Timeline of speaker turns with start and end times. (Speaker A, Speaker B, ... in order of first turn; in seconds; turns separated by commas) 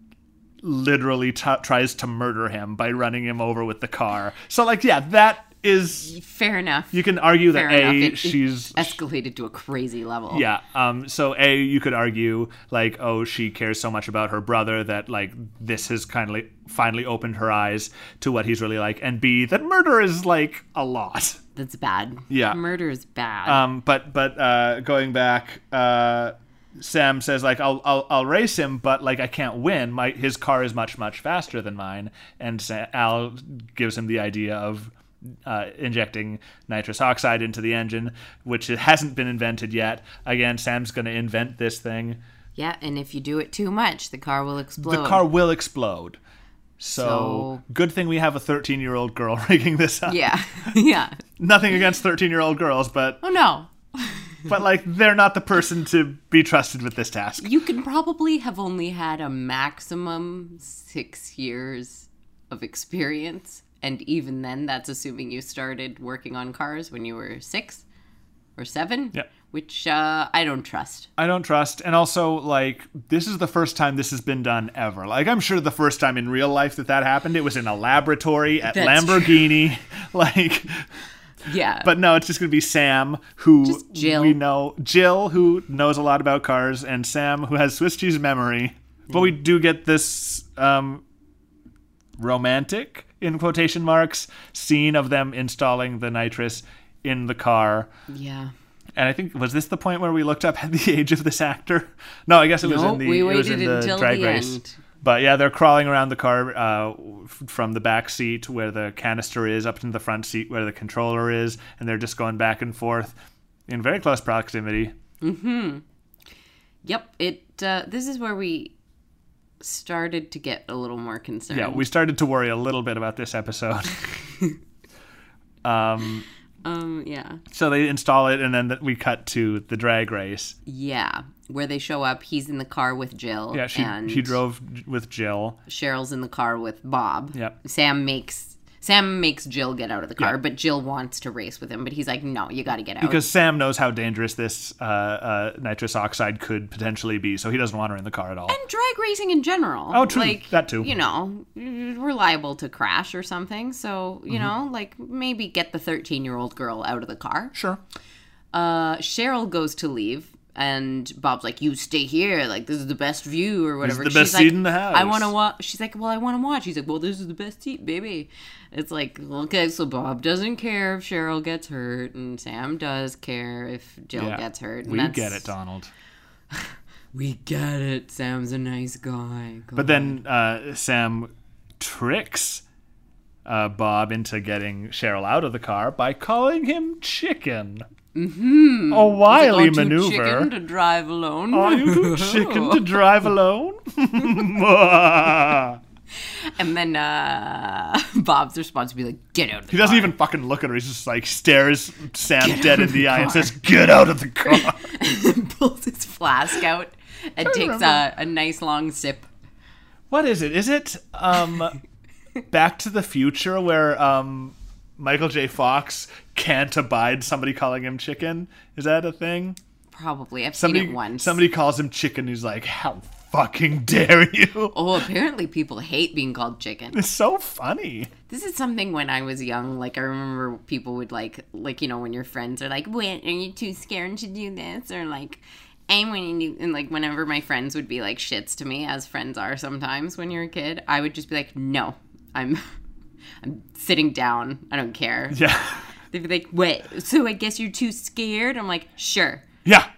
Speaker A: 0.6-6.1, Speaker B: 6.0-10.4, Speaker A: 6.9-9.0, Speaker A: 10.3-21.4, Speaker B: 21.6-23.6, Speaker A: 22.3-22.6, Speaker A: 23.4-34.9, Speaker A: 35.4-42.2, Speaker B: 42.5-45.2, Speaker A: 44.8-46.2, Speaker A: 46.8-50.7, Speaker B: 46.9-47.6, Speaker B: 50.0-51.2, Speaker A: 51.4-53.2, Speaker B: 53.2-54.5, Speaker A: 54.5-57.5, Speaker B: 57.4-67.8, Speaker B: 68.6-71.1, Speaker A: 71.2-80.9, Speaker B: 78.7-79.4, Speaker B: 81.4-81.9, Speaker A: 81.8-91.0, Speaker B: 83.6-84.4, Speaker A: 92.2-97.9, Speaker B: 98.1-98.5, Speaker A: 99.0-113.2, Speaker B: 102.6-104.8, Speaker A: 113.7-114.9, Speaker B: 115.2-115.8, Speaker B: 116.8-118.7, Speaker B: 119.6-121.8, Speaker A: 121.5-124.1, Speaker A: 125.6-126.2, Speaker B: 126.6-127.4, Speaker A: 127.5-130.5, Speaker B: 130.7-134.4, Speaker A: 133.5-135.6, Speaker B: 135.7-143.2, Speaker A: 143.0-148.6, Speaker B: 148.5-157.5, Speaker A: 149.9-150.9, Speaker A: 157.5-157.8, Speaker B: 158.5-175.5, Speaker A: 163.8-165.3, Speaker A: 174.2-175.9, Speaker B: 176.5-180.2, Speaker A: 179.8-182.6, Speaker A: 183.4-187.9, Speaker B: 188.1-193.0, Speaker A: 188.9-190.5, Speaker A: 191.5-195.8, Speaker B: 196.3-200.2, Speaker A: 199.7-204.8, Speaker B: 202.4-203.5, Speaker B: 204.4-209.3, Speaker A: 207.4-208.0, Speaker A: 210.1-211.8, Speaker A: 212.5-219.6, Speaker B: 219.9-221.4, Speaker A: 220.5-224.7, Speaker B: 224.7-227.0, Speaker A: 226.9-228.1, Speaker B: 228.3-242.6, Speaker B: 243.4-245.4, Speaker A: 245.3-245.8, Speaker B: 246.1-249.5, Speaker A: 249.6-249.9